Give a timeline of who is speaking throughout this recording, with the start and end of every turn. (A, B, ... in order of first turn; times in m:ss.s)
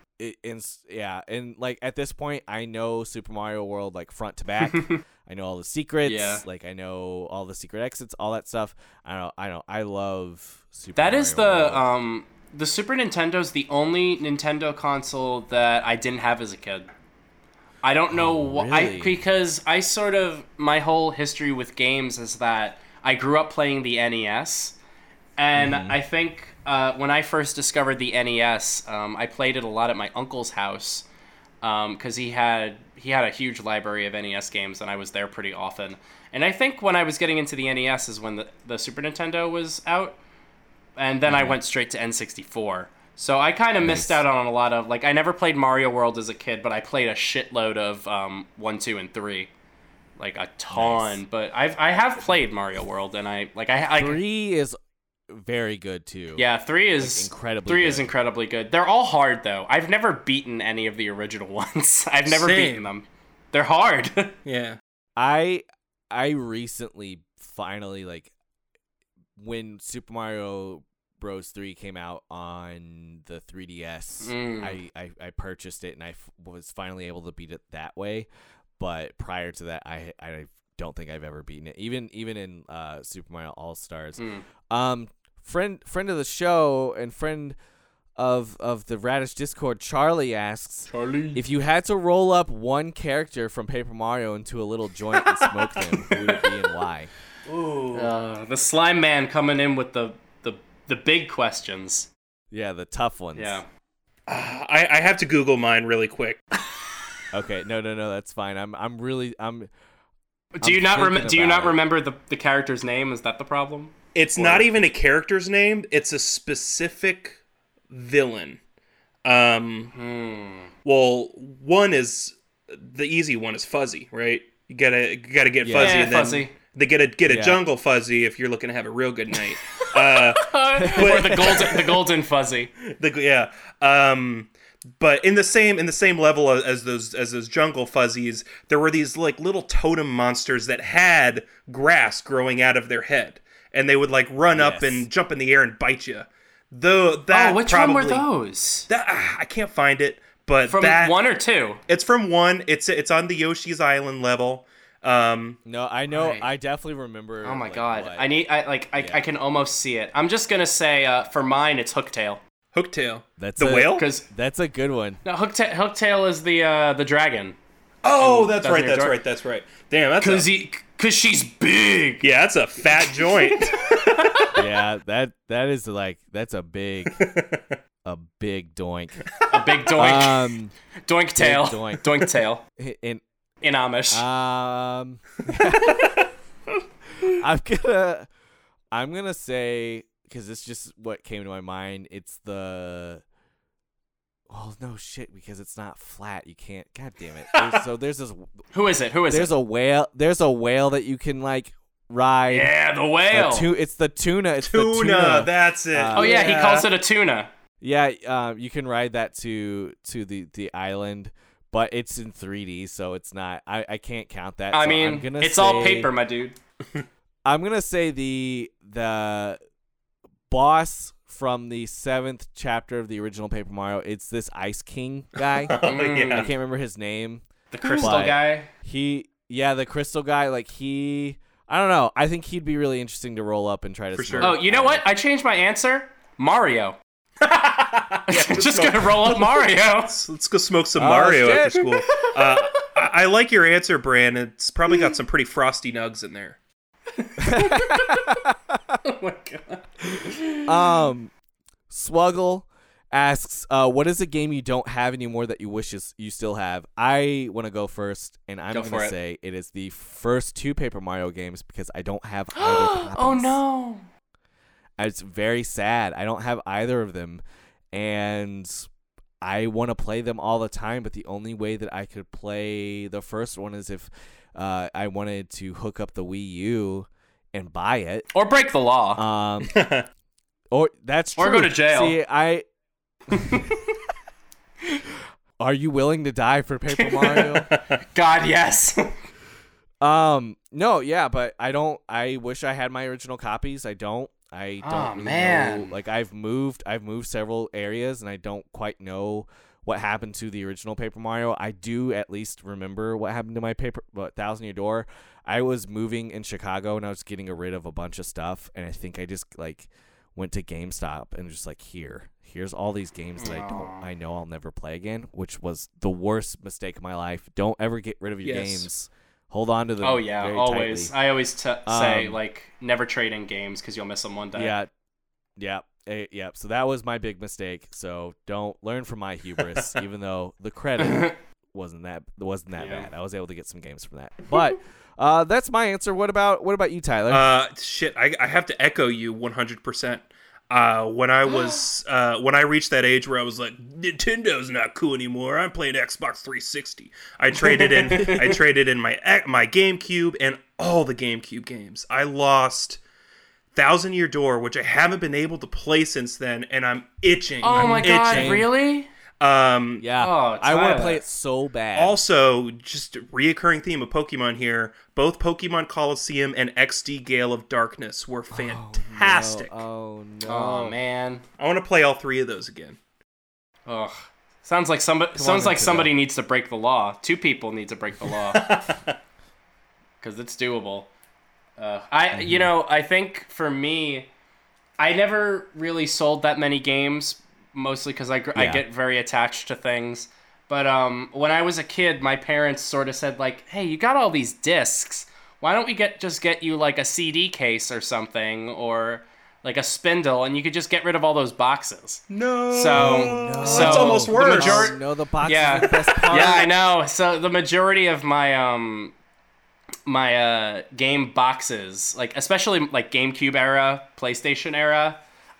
0:00.2-0:11.8 A
0:04.6-0:05.0 B
0:06.0-0:06.4 B
0:11.0-0:16.9 B
0:17.8-0:24.8 B
0:18.1-0:19.2 A
0:25.4-0:31.0 B
0:25.6-0:26.0 A
0:31.6-0:40.2 B
0:41.0-0:49.5 B
0:41.3-0:41.6 A
0:43.8-0:44.2 A
0:50.2-0:54.2 B
0:50.7-0:51.2 A
0:54.0-0:54.8 A
0:55.3-0:56.4 A
0:56.4-1:04.3 B
0:57.0-0:58.1 A
1:02.3-1:02.9 C
1:04.4-1:04.8 C
1:05.2-1:08.3 A
1:09.4-1:18.3 A
1:14.2-1:14.8 B
1:18.8-1:27.6 A
1:24.2-1:24.4 B
1:28.2-1:37.1 A
1:30.9-1:31.4 B
1:37.4-1:38.1 C
1:37.9-1:42.1 B
1:42.5-1:43.6 A
1:43.4-1:43.7 B
1:44.3-1:46.4 C
1:47.3-1:49.7 A
1:50.5-1:53.9 B
1:50.6-1:51.8 A
1:54.1-1:57.4 C
1:54.4-1:54.6 A
1:57.9-1:58.6 C
1:59.2-1:59.9 C
1:59.9-2:00.7 B
2:00.8-2:12.1 C
2:05.6-2:06.4 A
2:05.8-2:06.5 B
2:07.3-2:07.6 A
2:09.6-2:12.7 B
2:10.8-2:11.2 A
2:12.8-2:28.3 C
2:24.5-2:25.1 A
2:27.3-2:28.9 B
2:28.9-2:31.2 C
2:30.7-2:31.8 B
2:31.9-2:35.6 C
2:35.6-2:38.3 A
2:36.1-2:36.5 B
2:37.4-2:42.4 B
2:39.0-2:39.2 A
2:42.7-2:44.0 C
2:43.4-2:45.2 A
2:44.0-2:44.2 B
2:45.2-2:47.6 B
2:48.0-2:50.5 C
2:48.2-2:49.2 B
2:50.2-2:52.3 B
2:52.2-2:54.5 C
2:53.1-2:54.6 B
2:54.5-2:57.2 A
2:57.1-2:57.8 C
2:58.0-2:59.3 A
2:59.5-3:00.5 B
3:00.0-3:00.7 A
3:01.0-3:02.6 B
3:01.4-3:02.1 A
3:02.8-3:03.2 A
3:03.6-3:04.2 B
3:04.1-3:06.2 A
3:07.4-3:08.3 A
3:08.9-3:13.2 A
3:14.5-3:18.5 A
3:17.5-3:17.8 C
3:18.7-3:19.5 B
3:19.3-3:22.7 A
3:22.5-3:23.7 B
3:23.3-3:26.4 A
3:24.6-3:26.9 C
3:26.1-3:27.5 B
3:27.8-3:36.1 A
3:34.7-3:36.6 B
3:37.4-3:39.6 A
3:40.5-3:55.0 A
3:45.7-3:46.5 C
3:45.8-3:46.5 B
3:47.7-3:48.7 B
3:47.8-3:48.2 C
3:54.1-3:54.6 C
3:54.4-3:57.0 B
3:57.4-4:06.6 C
3:58.3-4:00.1 B
4:01.0-4:01.9 A
4:02.0-4:02.8 B
4:07.2-4:08.5 B
4:07.4-4:09.0 A
4:09.0-4:11.0 B
4:10.6-4:11.3 A
4:11.9-4:23.6 A
4:18.7-4:19.1 B
4:22.5-4:24.1 B
4:25.0-4:28.9 A
4:29.4-4:38.3 A
4:38.3-4:39.2 B
4:39.2-4:39.7 A
4:39.6-4:40.0 C
4:40.7-4:42.6 A
4:41.4-4:42.2 B
4:43.3-4:43.8 B
4:43.3-4:43.6 A
4:45.6-4:47.7 A
4:46.9-4:49.1 B
4:50.0-5:21.1 A
4:54.8-4:55.9 B
5:13.4-5:14.0 B
5:18.4-5:18.9 C
5:20.0-5:24.7 B
5:21.8-5:22.4 A
5:24.5-5:24.9 A
5:25.6-5:37.5 A
5:31.0-5:31.3 B
5:32.8-5:33.1 B
5:37.3-5:53.0 C
5:47.8-5:48.4 B
5:53.7-5:58.6 C
5:57.6-5:59.1 B
5:57.7-5:58.7 A
5:59.4-6:00.0 C
6:00.0-6:02.2 A
6:00.2-6:01.2 B
6:01.9-6:09.8 C
6:08.5-6:11.0 A
6:10.4-6:11.4 B
6:11.6-6:13.0 C
6:13.9-6:18.8 B
6:15.4-6:16.1 A
6:18.5-6:19.2 C
6:20.2-6:21.1 B
6:21.8-6:24.3 B
6:22.3-6:22.7 A
6:25.0-6:49.1 B
6:28.6-6:28.8 A
6:42.3-6:44.9 C
6:42.9-6:46.7 A
6:50.0-6:55.2 B